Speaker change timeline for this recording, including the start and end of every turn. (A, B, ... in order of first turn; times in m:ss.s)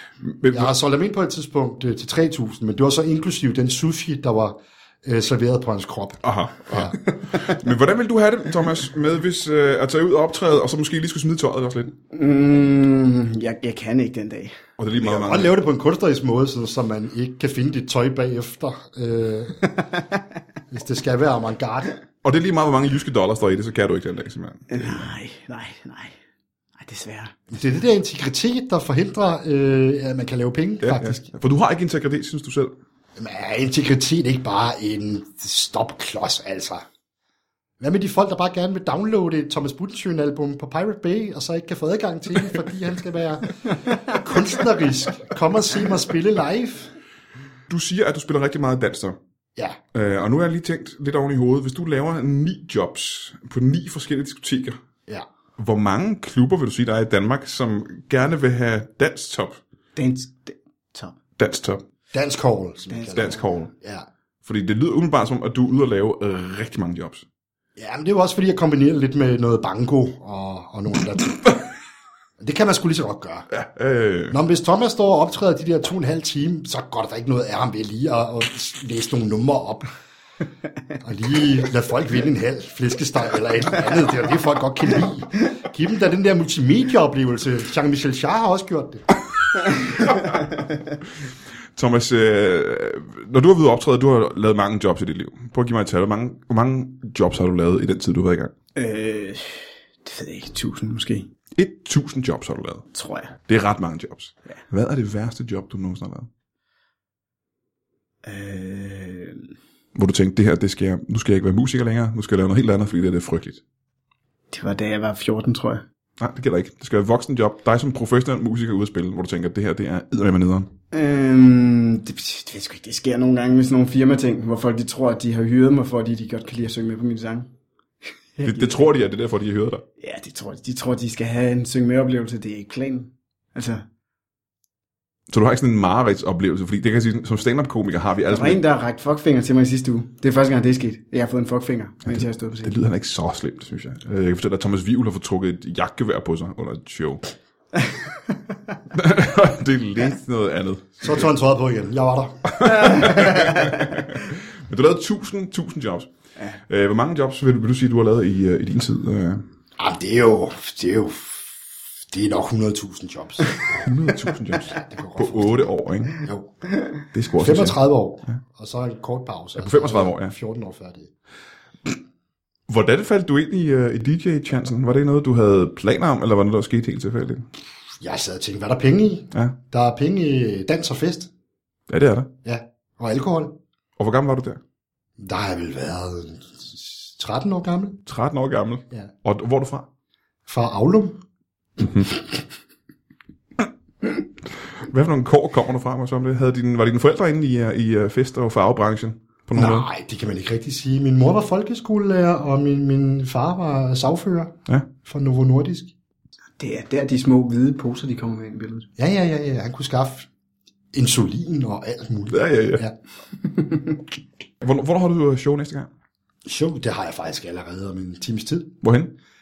0:00.2-0:00.7 A
0:00.5-0:07.0 B
0:06.2-0:11.9 A
0:12.1-0:14.6 C
0:14.8-0:15.5 A
0:15.0-0:19.7 B
0:20.7-0:21.9 B
0:22.2-0:25.0 A
0:24.7-0:26.2 C
0:26.8-0:27.3 C
0:27.5-0:31.3 B
0:30.8-0:32.7 A
0:33.2-0:36.8 B
0:37.8-0:46.9 B
0:47.7-0:49.2 A
0:49.9-0:54.8 A
0:55.6-0:59.6 A
1:00.0-1:01.2 C
1:01.4-1:01.8 A
1:02.1-1:04.0 B
1:02.9-1:03.4 C
1:03.1-1:03.7 A
1:04.4-1:07.2 A
1:07.8-1:11.6 B
1:12.4-1:13.5 B
1:13.5-1:14.4 A
1:14.3-1:19.9 B
1:21.0-1:29.0 B
1:31.8-1:38.5 A
1:38.8-1:41.3 C
1:41.6-1:42.8 A
1:42.9-1:43.3 C
1:43.5-1:46.3 A
1:48.2-1:49.5 C
1:49.9-1:53.6 A
1:54.5-1:55.8 C
1:56.2-2:00.7 A
2:00.9-2:07.5 C
2:08.4-2:08.9 C
2:08.4-2:09.8 A
2:10.0-2:13.8 C
2:15.3-2:18.6 A
2:18.3-2:22.7 C
2:22.0-2:27.2 A
2:27.8-2:28.1 C
2:28.9-2:31.2 A
2:31.0-2:33.1 B
2:32.5-2:36.1 A
2:36.7-2:39.4 A
2:39.8-2:41.6 B
2:42.1-2:43.6 B
2:43.7-2:46.2 A
2:44.7-2:46.5 B
2:47.1-2:48.4 A
2:47.4-2:51.1 B
2:49.6-2:50.3 A
2:52.7-2:57.4 A
2:58.0-3:01.3 B
3:01.9-3:02.3 A
3:02.4-3:03.6 B
3:04.0-3:04.6 A
3:05.2-3:08.0 B
3:08.0-3:09.9 A
3:10.4-3:11.2 B
3:11.8-3:12.2 A
3:14.8-3:19.9 A
3:19.5-3:25.9 B
3:26.6-3:28.9 C
3:29.0-3:30.3 B
3:30.9-3:32.9 B
3:32.3-3:32.8 A
3:34.6-3:35.9 A
3:36.4-3:38.8 B
3:38.8-3:39.1 A